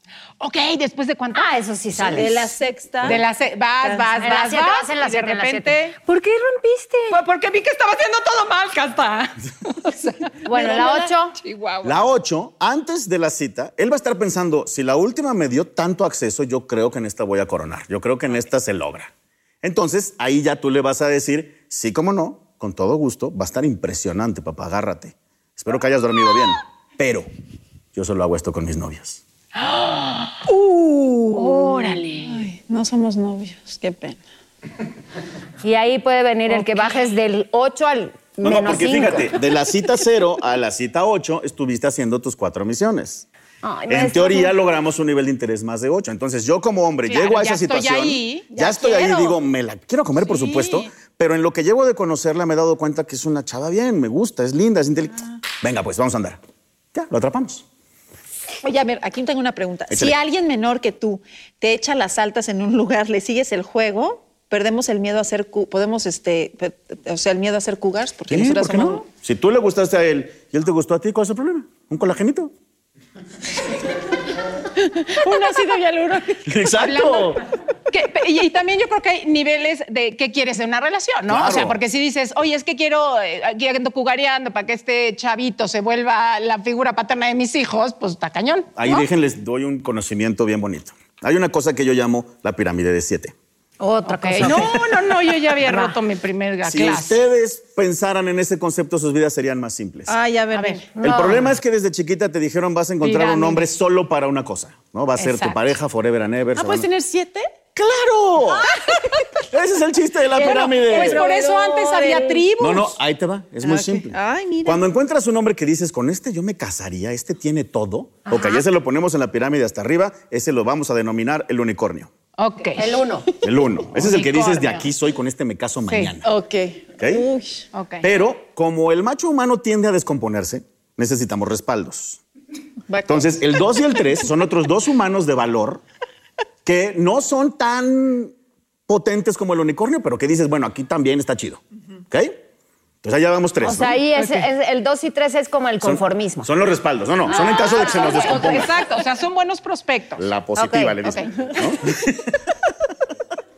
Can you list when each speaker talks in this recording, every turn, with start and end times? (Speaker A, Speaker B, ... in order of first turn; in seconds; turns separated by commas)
Speaker A: 0.4-1.6, Speaker B: 1.3-2.5, Speaker C: 2.0-3.2, Speaker A: 3.0-6.0, Speaker C: 3.8-4.2, Speaker B: 4.2-7.2, Speaker A: 7.1-12.0, Speaker B: 10.4-11.4, Speaker C: 10.5-11.1, Speaker D: 11.8-19.1, Speaker D: 19.6-27.3, Speaker D: 27.9-29.2, Speaker A: 29.6-30.4, Speaker C: 30.5-34.2, Speaker B: 31.3-32.3, Speaker A: 31.8-32.1, Speaker B: 35.6-39.3, Speaker D: 38.4-43.2, Speaker B: 43.6-44.5, Speaker D: 43.9-56.4, Speaker A: 47.1-49.3, Speaker C: 48.8-49.1, Speaker C: 50.4-50.9, Speaker D: 56.9-57.6, Speaker C: 58.6-69.1, Speaker D: 59.9-60.2, Speaker D: 68.3-72.5, Speaker C: 74.8-76.5, Speaker D: 76.4-77.4, Speaker A: 76.8-77.4, Speaker A: 77.9-89.0, Speaker D: 81.3-81.8, Speaker D: 88.8-93.3, Speaker B: 93.8-96.0, Speaker A: 94.0-97.2, Speaker D: 94.4-94.7, Speaker D: 96.6-100.2, Speaker C: 100.1-100.9, Speaker A: 100.5-100.8, Speaker B: 100.9-101.5, Speaker D: 101.0-106.9, Speaker A: 103.0-103.7, Speaker A: 105.2-105.7, Speaker C: 106.5-107.5, Speaker D: 107.8-108.7, Speaker D: 109.5-111.2, Speaker C: 110.3-112.5, Speaker A: 110.4-112.9, Speaker D: 112.6-122.1, Speaker C: 113.6-114.8, Speaker B: 118.3-118.6, Speaker A: 122.4-123.0, Speaker B: 122.8-123.2, Speaker D: 123.4-126.3, Speaker A: 123.9-124.9, Speaker A: 125.9-126.1, Speaker C: 126.2-127.7, Speaker D: 127.0-127.2, Speaker A: 127.7-128.1, Speaker D: 128.0-132.2, Speaker C: 132.9-133.5, Speaker D: 133.1-135.8, Speaker D: 136.6-138.3, Speaker D: 138.9-142.4, Speaker D: 143.0-143.9, Speaker B: 143.6-146.5, Speaker A: 144.1-144.5, Speaker D: 145.8-148.8, Speaker B: 147.3-148.7, Speaker A: 147.7-150.2, Speaker D: 150.2-152.5, Speaker B: 150.6-151.2